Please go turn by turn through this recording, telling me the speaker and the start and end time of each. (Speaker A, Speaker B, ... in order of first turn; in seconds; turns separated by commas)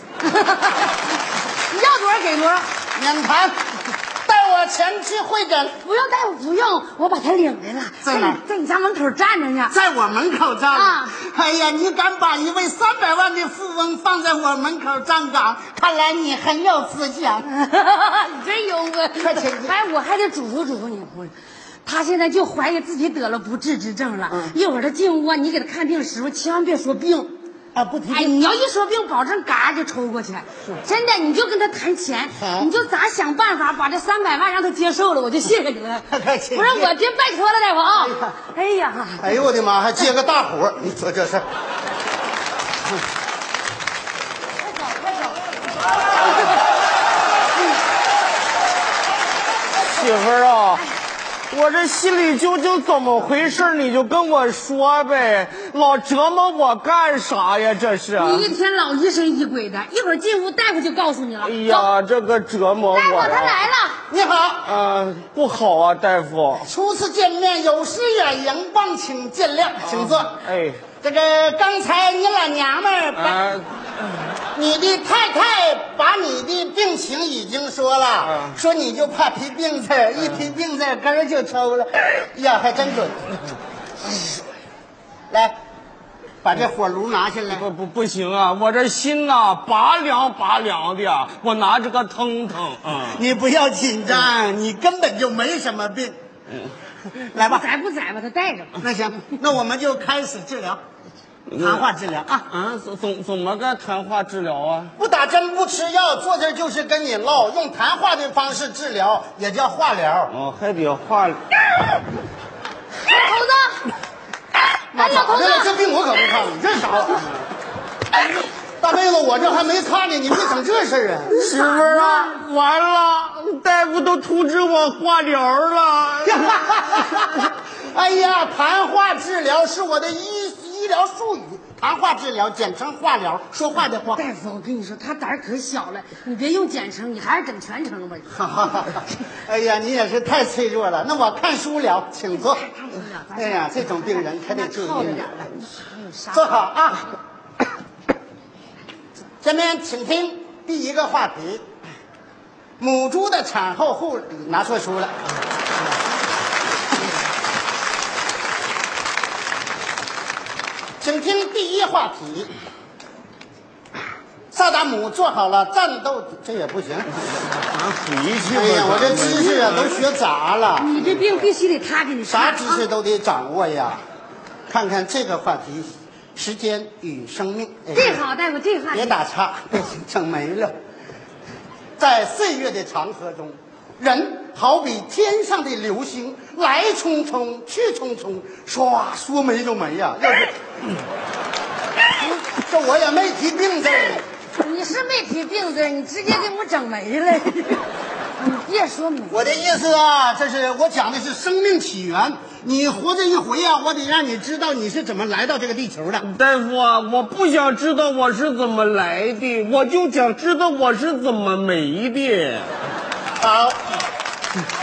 Speaker A: 0.2-1.1, Speaker A: 1.7-2.7, Speaker B: 2.9-5.8, Speaker A: 5.8-9.7, Speaker B: 8.0-8.4, Speaker B: 9.7-17.5, Speaker A: 10.7-11.1, Speaker A: 17.5-27.4, Speaker B: 19.2-19.8, Speaker B: 24.3-24.6, Speaker B: 27.7-28.4, Speaker A: 28.1-39.3, Speaker B: 32.4-32.7, Speaker B: 36.1-36.9, Speaker B: 38.0-38.3, Speaker B: 39.2-41.5, Speaker A: 44.6-45.4, Speaker A: 46.1-46.6, Speaker C: 49.8-50.8, Speaker C: 51.5-58.5, Speaker A: 58.1-61.9, Speaker C: 61.4-63.7, Speaker A: 62.9-64.0, Speaker B: 64.1-64.7, Speaker C: 64.7-66.7, Speaker B: 66.5-70.4, Speaker C: 69.8-70.8, Speaker B: 71.0-73.5, Speaker C: 73.2-74.3, Speaker B: 74.5-83.3, Speaker C: 78.2-78.6, Speaker B: 85.3-85.6, Speaker B: 86.4-87.7, Speaker C: 87.5-93.2, Speaker B: 93.0-96.2, Speaker A: 97.2-98.8, Speaker B: 97.3-97.7, Speaker B: 98.8-100.8, Speaker C: 101.5-101.8, Speaker B: 101.5-102.5, Speaker C: 102.5-104.9, Speaker B: 105.0-110.3, Speaker C: 110.3-111.5, Speaker A: 113.0-113.9, Speaker B: 114.9-117.3, Speaker A: 114.9-115.8, Speaker B: 118.8-121.4, Speaker C: 121.3-126.6, Speaker A: 121.4-122.3, Speaker B: 126.2-134.2, Speaker C: 127.2-127.5, Speaker A: 134.1-138.3, Speaker B: 138.3-142.7, Speaker A: 142.3-146.6, Speaker B: 143.3-145.4, Speaker B: 146.3-147.1, Speaker B: 149.4-151.6, Speaker B: 152.8-155.2, Speaker B: 161.0-162.5, Speaker B: 164.5-167.1, Speaker C: 167.5-170.1, Speaker B: 168.4-171.0, Speaker A: 170.8-172.9, Speaker B: 172.3-174.0, Speaker B: 174.7-178.2, Speaker A: 177.9-179.2, Speaker B: 178.9-180.7, Speaker B: 182.0-190.6, Speaker B: 192.2-194.2, Speaker A: 194.6-199.7, Speaker B: 199.3-206.3, Speaker C: 206.2-212.7, Speaker B: 213.4-213.8